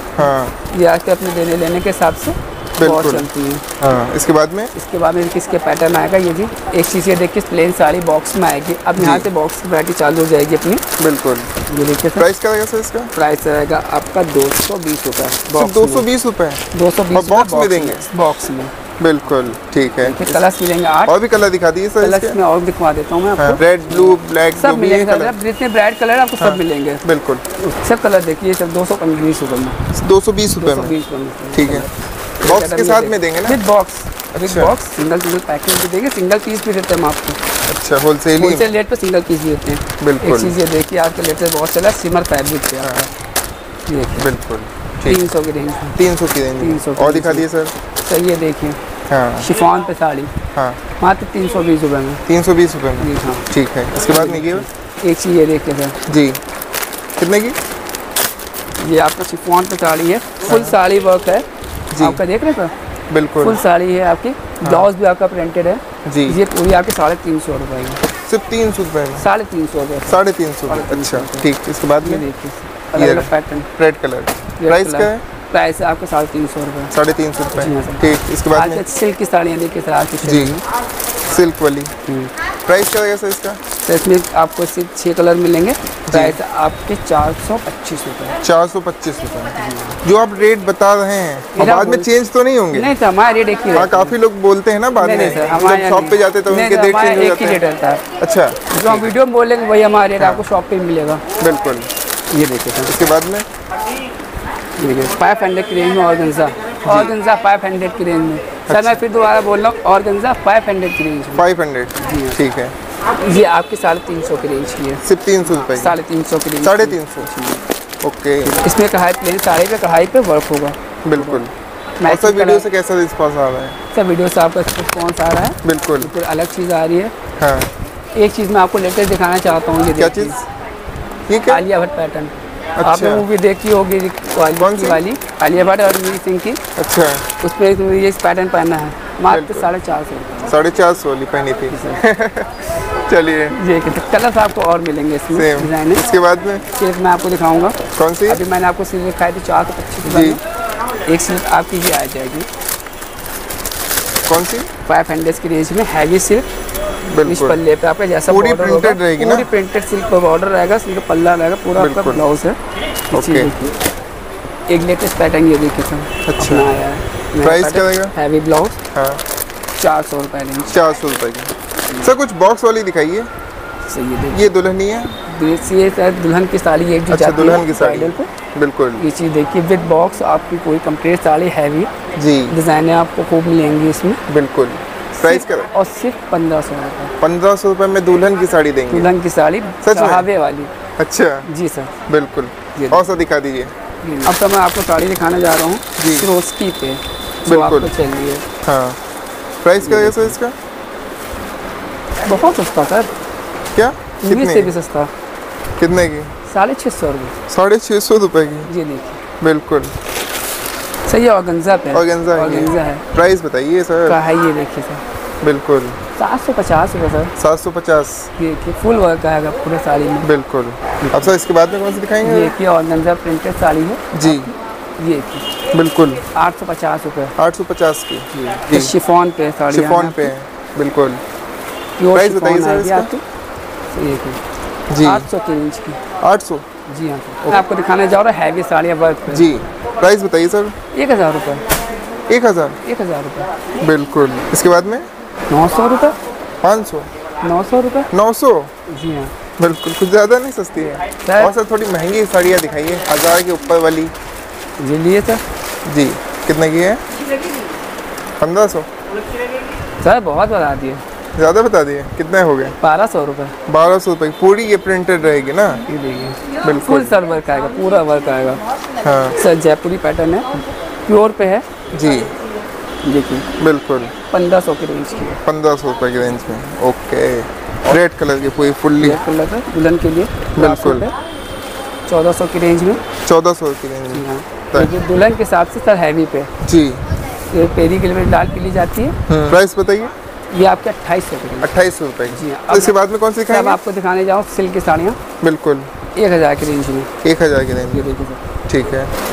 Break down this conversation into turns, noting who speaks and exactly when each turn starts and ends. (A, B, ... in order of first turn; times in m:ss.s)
0:00.2-0:00.6 A
0:00.7-0:03.6 B
0:02.8-0:04.7 A
0:04.8-0:10.8 B
0:09.0-0:09.3 A
0:11.0-0:11.5 A
0:11.7-0:12.3 B
0:12.2-0:13.1 A
0:13.2-0:16.1 B
0:15.5-0:18.1 A
0:16.7-0:18.7 B
0:19.0-0:20.5 A
0:20.0-0:21.2 B
0:21.1-0:22.4 A
0:22.0-0:27.0 B
0:23.4-0:25.4 A
0:26.4-0:27.4 A
0:27.6-0:29.8 B
0:29.9-0:31.0 A
0:30.6-0:37.4 B
0:31.5-0:31.9 A
0:32.4-0:33.6 A
0:34.4-0:34.7 A
0:37.7-0:38.7 A
0:38.4-0:43.1 B
0:40.0-0:40.6 A
0:43.9-0:44.3 B
0:44.2-0:45.3 A
0:45.0-0:46.0 B
0:46.0-0:47.7 A
0:46.6-0:47.5 B
0:48.0-0:48.8 B
0:49.1-0:49.5 A
0:49.4-0:50.3 B
0:50.6-0:50.8 A
0:51.0-0:52.2 B
0:52.3-0:54.7 A
0:53.0-0:56.0 B
0:56.1-0:56.4 A
0:57.2-0:57.6 A
0:58.8-1:02.7 B
1:00.5-1:00.8 A
1:01.9-1:02.2 A
1:03.1-1:03.6 A
1:03.4-1:08.0 B
1:04.6-1:04.9 A
1:06.0-1:06.4 A
1:08.1-1:09.2 A
1:09.2-1:11.5 B
1:10.1-1:12.3 A
1:12.0-1:13.7 B
1:12.9-1:15.2 A
1:14.6-1:16.9 B
1:16.9-1:18.8 A
1:17.6-1:20.6 B
1:20.2-1:20.6 A
1:21.2-1:21.9 A
1:22.1-1:22.3 B
1:22.7-1:23.6 A
1:23.8-1:28.4 B
1:26.1-1:26.4 A
1:28.4-1:32.9 A
1:29.6-1:29.9 B
1:31.6-1:32.1 B
1:32.7-1:34.1 B
1:33.7-1:37.6 A
1:35.0-1:38.0 B
1:38.2-1:39.1 A
1:38.7-1:41.2 B
1:40.2-1:40.4 A
1:41.4-1:41.9 A
1:42.3-1:42.9 B
1:42.8-1:43.5 A
1:44.8-1:51.4 B
1:46.8-1:47.1 A
1:48.7-1:49.0 A
1:51.3-1:52.8 A
1:52.0-1:52.4 B
1:53.2-1:57.7 B
1:55.0-1:56.0 A
1:56.6-1:57.3 A
1:58.0-1:58.6 A
1:58.4-2:01.4 B
2:01.0-2:01.5 A
2:02.0-2:02.7 B
2:02.0-2:03.8 A
2:03.9-2:07.1 B
2:05.6-2:06.1 A
2:07.4-2:07.7 A
2:08.2-2:10.4 B
2:10.0-2:10.4 A
2:11.3-2:11.6 A
2:11.5-2:16.6 B
2:12.8-2:13.2 A
2:14.6-2:15.0 A
2:16.8-2:17.2 A
2:17.4-2:20.5 B
2:19.3-2:19.7 A
2:20.5-2:23.6 A
2:21.7-2:22.0 B
2:23.5-2:26.1 B
2:25.3-2:26.6 A
2:26.8-2:27.8 B
2:28.0-2:28.4 A
2:28.3-2:30.4 B
2:30.0-2:30.4 A
2:31.1-2:32.5 B
2:34.3-2:34.7 A
2:34.9-2:36.5 B
2:37.1-2:37.6 A
2:37.2-2:42.6 B
2:38.3-2:39.5 A
2:41.8-2:42.3 A
2:43.1-2:43.8 B
2:43.1-2:43.5 A
2:44.7-2:48.8 B
2:46.3-2:46.7 A
2:47.4-2:48.1 A
2:48.9-2:49.2 A
2:49.8-2:50.7 B
2:50.7-2:53.3 A
2:53.9-2:54.4 B
2:54.3-2:55.3 A
2:55.3-2:58.3 B
2:57.1-2:59.0 A
2:59.0-3:01.9 B
3:02.2-3:02.6 A
3:02.5-3:04.2 B
3:04.3-3:05.7 A
3:05.2-3:07.1 B
3:07.2-3:09.1 A
3:08.9-3:10.7 B
3:09.8-3:10.3 A
3:11.0-3:11.5 A
3:11.5-3:11.9 B
3:12.1-3:13.7 A
3:12.8-3:13.1 B
3:14.0-3:18.4 B
3:16.0-3:16.3 A
3:17.5-3:17.9 A
3:18.6-3:19.0 A
3:19.6-3:20.6 A
3:19.8-3:20.4 B
3:22.2-3:23.1 B
3:23.8-3:24.7 A
3:24.2-3:25.1 B
3:25.8-3:26.3 A
3:26.5-3:27.4 B
3:27.5-3:28.7 A
3:28.7-3:29.2 B
3:29.4-3:29.9 A
3:31.1-3:33.0 B
3:31.9-3:34.2 A
3:34.1-3:35.0 B
3:35.4-3:36.0 A
3:36.2-3:37.3 B
3:37.4-3:38.3 A
3:38.4-3:40.3 B
3:40.2-3:42.6 A
3:41.0-3:41.3 B
3:42.2-3:45.5 B
3:44.1-3:44.5 A
3:45.7-3:46.2 A
3:46.3-3:47.3 B
3:47.4-3:48.9 A
3:48.3-3:50.3 B
3:49.7-3:51.2 A
3:52.0-3:53.2 B
3:52.1-3:53.1 A
3:53.9-3:54.4 B
3:54.9-3:55.3 A
3:55.0-3:56.0 B
3:56.2-3:56.7 A
3:56.9-3:59.5 B
3:59.3-4:00.8 A
4:00.9-4:01.6 B
4:02.3-4:02.8 A
4:02.8-4:03.5 B
4:03.8-4:05.1 A
4:05.5-4:06.2 B
4:06.6-4:07.1 A
4:07.4-4:08.1 B
4:08.1-4:08.7 A
4:08.9-4:09.3 B
4:09.6-4:14.1 A
4:11.3-4:11.6 B
4:14.8-4:15.4 B
4:15.9-4:17.0 A
4:18.4-4:18.9 A
4:20.0-4:21.0 B
4:21.4-4:22.8 A
4:22.8-4:23.5 B
4:23.7-4:25.8 A
4:25.9-4:28.6 B
4:26.6-4:27.2 A
4:29.0-4:29.4 A
4:29.4-4:31.6 B
4:31.9-4:32.3 A
4:33.0-4:33.5 B
4:33.6-4:34.1 A
4:34.3-4:35.4 B
4:35.4-4:39.2 A
4:39.0-4:41.2 B
4:40.6-4:41.1 A
4:42.1-4:43.0 B
4:43.2-4:44.9 A
4:44.1-4:46.5 B
4:46.6-4:47.0 A
4:47.5-4:49.2 B
4:49.3-4:50.1 A
4:50.5-4:51.7 B
4:51.6-4:53.8 A
4:52.3-4:55.2 B
4:55.4-4:55.9 A
4:56.2-4:57.1 B
4:57.2-4:58.1 A
4:57.9-4:58.4 B
4:58.7-4:59.1 A